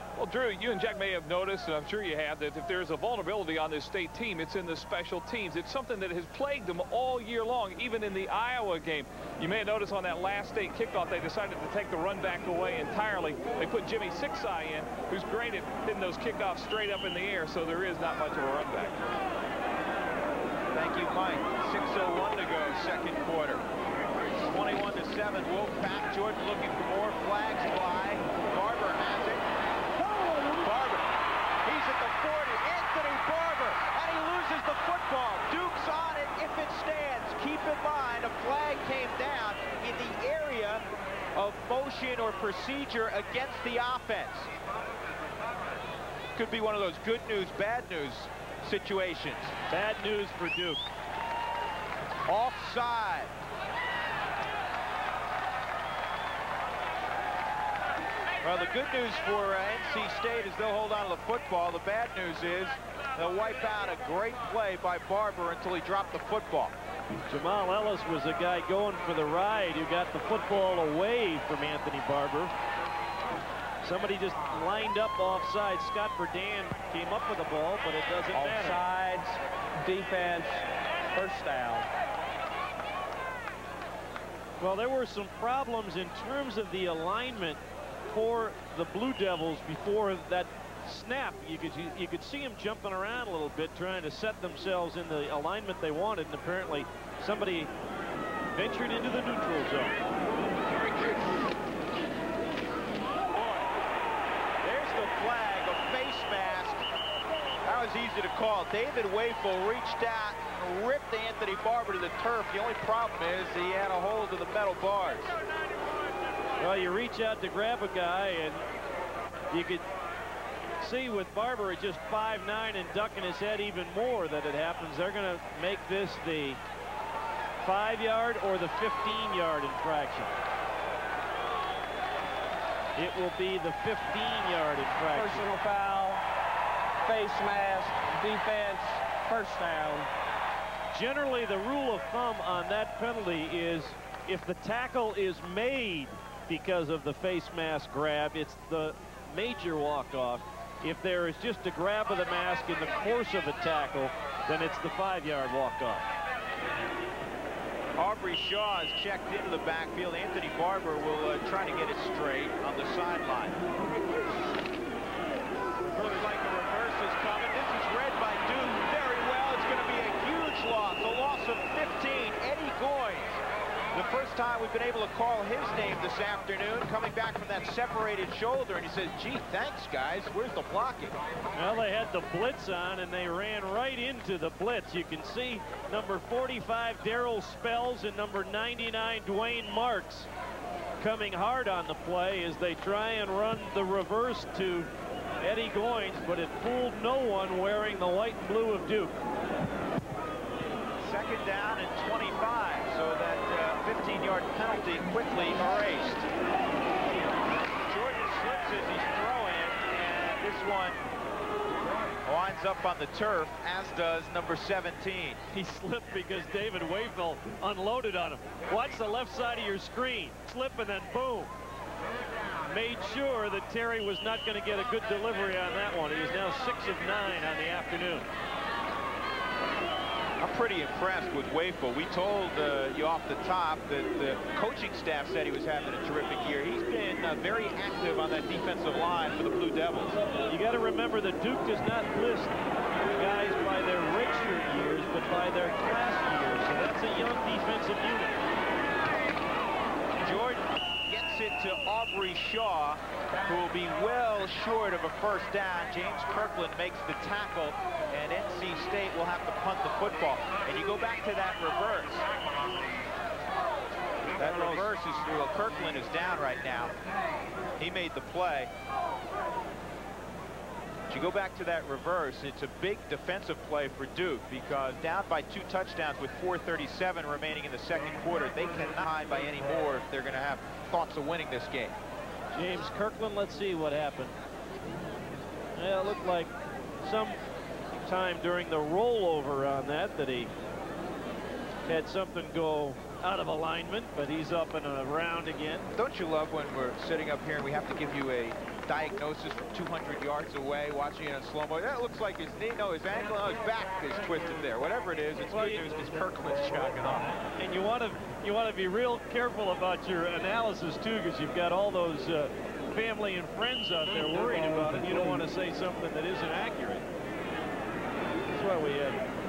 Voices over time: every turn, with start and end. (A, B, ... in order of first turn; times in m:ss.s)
0:00.2-0:19.2 A
0:20.7-0:23.6 B
0:24.3-0:29.5 B
0:30.3-0:31.1 B
0:31.6-0:44.5 B
0:46.4-0:49.6 B
0:49.7-0:50.8 C
0:52.3-0:53.3 B
0:58.4-1:06.8 B
1:07.3-1:12.5 C
1:13.8-1:18.8 C
1:18.3-1:21.9 D
1:24.6-1:37.7 C
1:38.5-1:40.0 C
1:43.3-1:43.7 B
1:44.6-1:46.8 B
1:47.6-1:55.3 B
1:56.6-1:58.6 C
1:59.5-1:59.9 C
2:00.8-2:06.6 C
2:07.6-2:10.4 C
2:13.0-2:15.5 C
2:15.1-2:16.2 D
2:17.0-2:20.1 D
2:20.9-2:36.1 C
2:38.0-2:43.6 B
2:45.9-2:46.3 C
2:46.0-2:53.4 B
2:53.9-3:01.2 B
3:01.6-3:10.3 C
3:11.0-3:14.9 C
3:15.4-3:19.2 C
3:21.0-3:26.3 B
3:27.9-3:31.0 B
3:32.3-3:35.4 B
3:35.5-3:41.5 C
3:42.7-3:48.3 C
3:50.4-4:00.2 B
4:00.5-4:02.6 C
4:03.2-4:08.4 C
4:10.2-4:22.3 B
4:24.4-4:24.9 C
4:24.4-4:26.9 B
4:27.8-4:28.7 B
4:31.1-4:42.0 B
4:42.5-4:44.3 C
4:45.8-4:46.5 C
4:47.0-4:47.4 C
4:48.0-4:50.5 C
4:51.9-4:55.9 C
4:56.0-5:07.4 B
5:05.5-5:05.9 C
5:07.6-5:17.1 C
5:18.5-5:19.2 C